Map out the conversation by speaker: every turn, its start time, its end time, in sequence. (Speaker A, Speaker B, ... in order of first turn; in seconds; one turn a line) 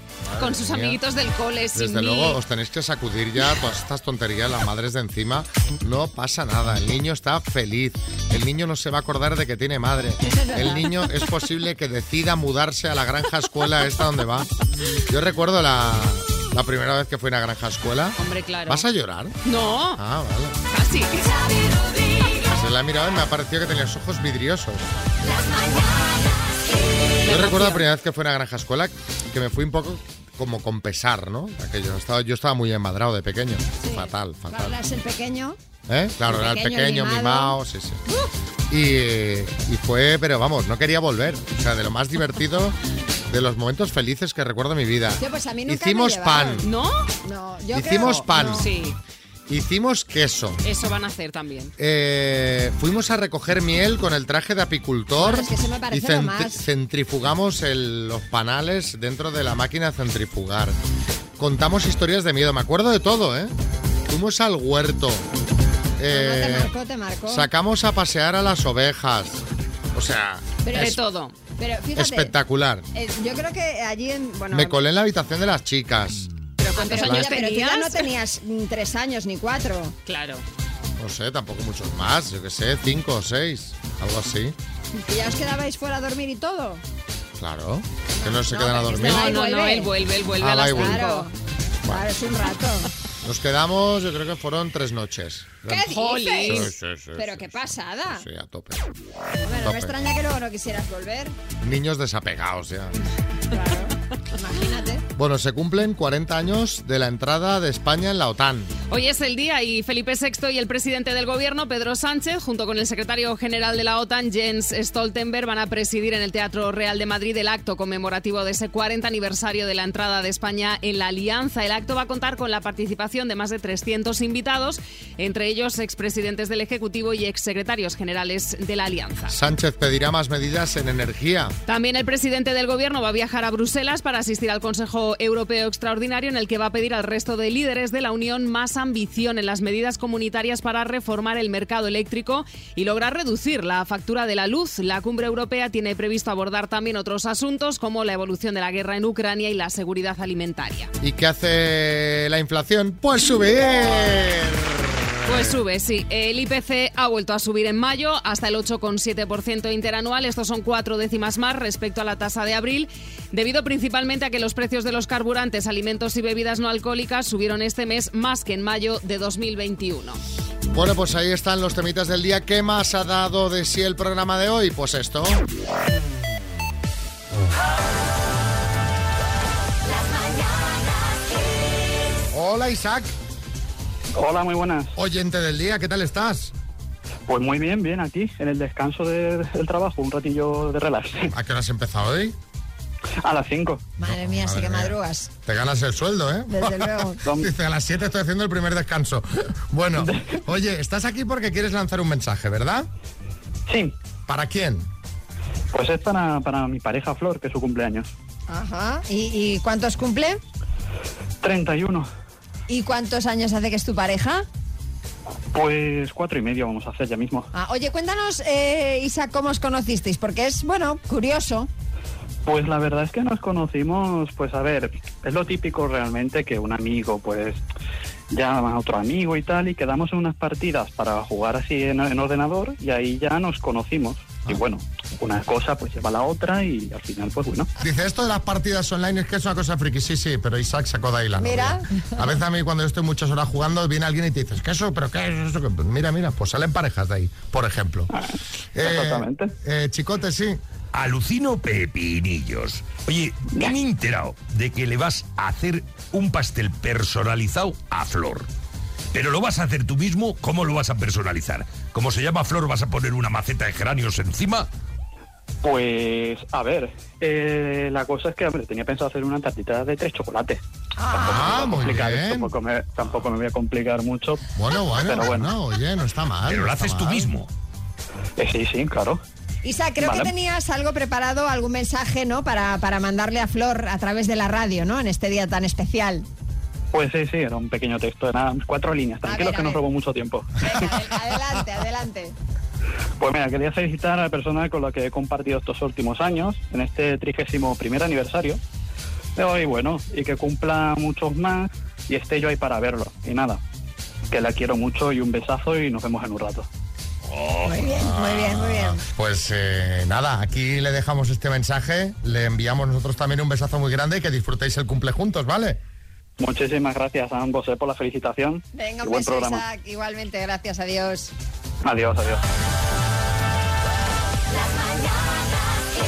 Speaker A: 0.2-1.0
Speaker B: 0.4-2.4
Speaker A: 1.7-14.5
Speaker A: 15.1-19.4
Speaker B: 18.2-18.9
Speaker B: 19.4-20.0
Speaker A: 19.9-20.6
Speaker B: 20.7-21.5
Speaker A: 22.4-24.9
Speaker A: 27.2-34.8
Speaker B: 27.2-27.8
Speaker C: 33.8-35.6
Speaker A: 35.9-38.0
Speaker C: 36.3-37.6
Speaker A: 38.7-42.8
Speaker A: 43.3-46.7
Speaker C: 45.2-46.7
Speaker B: 46.6-47.1
Speaker C: 47.2-48.6
Speaker A: 47.7-48.7
Speaker B: 48.5-49.0
Speaker A: 49.5-50.6
Speaker B: 50.6-51.7
Speaker A: 51.8-60.8
Speaker C: 55.1-56.6
Speaker A: 61.4-63.5
Speaker A: 64.1-65.2
Speaker A: 66.0-66.7
Speaker C: 66.1-67.5
Speaker A: 67.3-71.0
Speaker C: 70.7-71.0
Speaker B: 70.7-71.3
Speaker C: 71.6-72.3
Speaker A: 72.0-72.8
Speaker C: 72.9-74.8
Speaker A: 74.5-76.3
Speaker C: 76.6-80.0
Speaker B: 76.8-78.1
Speaker A: 76.9-77.3
Speaker B: 80.0-80.4
Speaker A: 81.0-84.5
Speaker C: 85.0-86.8
Speaker A: 87.4-89.4
Speaker C: 88.2-89.9
Speaker B: 88.9-91.3
Speaker A: 90.4-91.1
Speaker C: 90.7-91.3
Speaker C: 91.9-92.9
Speaker A: 93.2-98.9
Speaker C: 95.7-98.2
Speaker B: 95.9-96.7
Speaker C: 99.4-101.3
Speaker A: 99.5-99.9
Speaker A: 101.6-102.9
Speaker C: 103.5-105.0
Speaker A: 105.1-108.7
Speaker B: 108.9-129.3
Speaker A: 129.3-131.6
Speaker B: 131.7-150.9
Speaker A: 151.0-155.6
Speaker B: 155.2-170.2
Speaker A: 170.7-175.4
Speaker A: 182.3-183.1
Speaker D: 184.1-184.9
Speaker A: 184.9-186.5
Speaker D: 187.3-191.3
Speaker A: 191.3-192.3
Speaker D: 193.2-193.8
Speaker C: 194.0-195.3
Speaker A: 194.1-202.9
Speaker C: 196.5-197.2
Speaker D: 197.2-197.5
Speaker D: 200.0-200.3
Speaker D: 203.7-203.9
Speaker A: 204.3-204.9
Speaker D: 205.7-208.1
Speaker C: 208.5-210.4
Speaker D: 211.4-212.1
Speaker C: 212.7-214.4
Speaker D: 215.5-217.5
Speaker C: 217.5-221.7
Speaker D: 222.4-227.6
Speaker D: 228.3-237.7
Speaker A: 237.8-248.1
Speaker C: 241.4-242.3
Speaker A: 248.8-250.6
Speaker D: 248.8-249.5
Speaker E: 250.9-258.5
Speaker E: 259.1-264.7
Speaker D: 265.6-270.6
Speaker C: 271.0-271.9
Speaker D: 271.1-274.4
Speaker A: 271.2-272.5
Speaker A: 274.6-277.3
Speaker D: 274.9-275.5
Speaker E: 276.5-277.5
Speaker D: 278.4-279.2
Speaker C: 279.6-286.2
Speaker D: 280.0-280.3
Speaker D: 286.9-290.8
Speaker C: 289.2-289.8
Speaker C: 290.6-292.3
Speaker D: 293.2-298.6
Speaker D: 299.4-303.6
Speaker D: 304.3-306.7
Speaker C: 307.6-309.0
Speaker A: 307.9-315.8
Speaker D: 316.4-319.6
Speaker C: 318.7-321.3
Speaker D: 321.8-322.4